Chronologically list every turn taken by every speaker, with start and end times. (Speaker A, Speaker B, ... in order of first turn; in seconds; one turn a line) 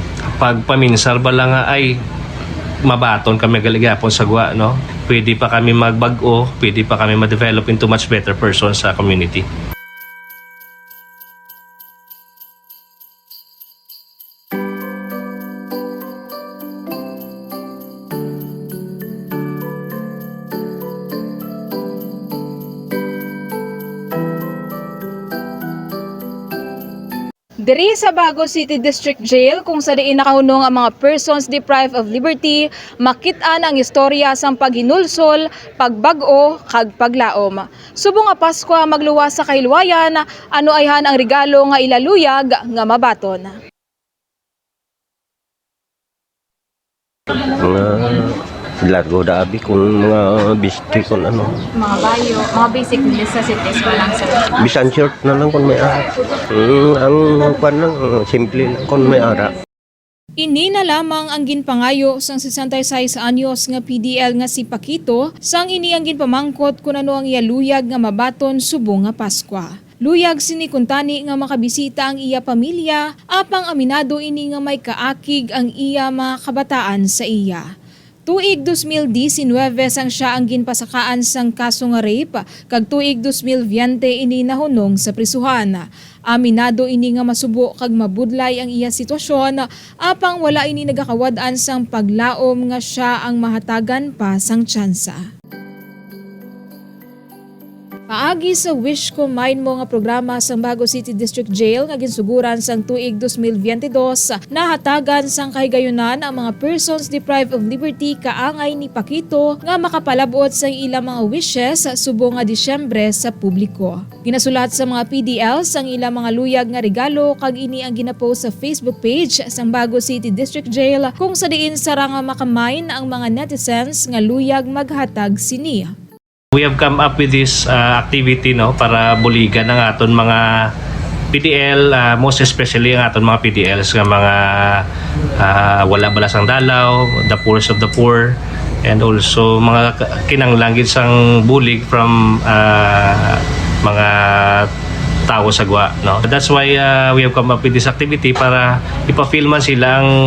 Speaker A: 0.4-1.9
Speaker A: 2.8-9.4
Speaker B: 27.6-43.5
Speaker C: 47.6-51.5
Speaker D: 51.8-54.5
Speaker C: 54.5-59.5
Speaker B: 60.4-77.6
Speaker B: 78.2-95.2
Speaker B: 98.1-125.9
Speaker A: 126.5-130.7
Speaker A: 131.3-134.8
Speaker A: 135.4-144.7
Speaker A: 145.3-150.1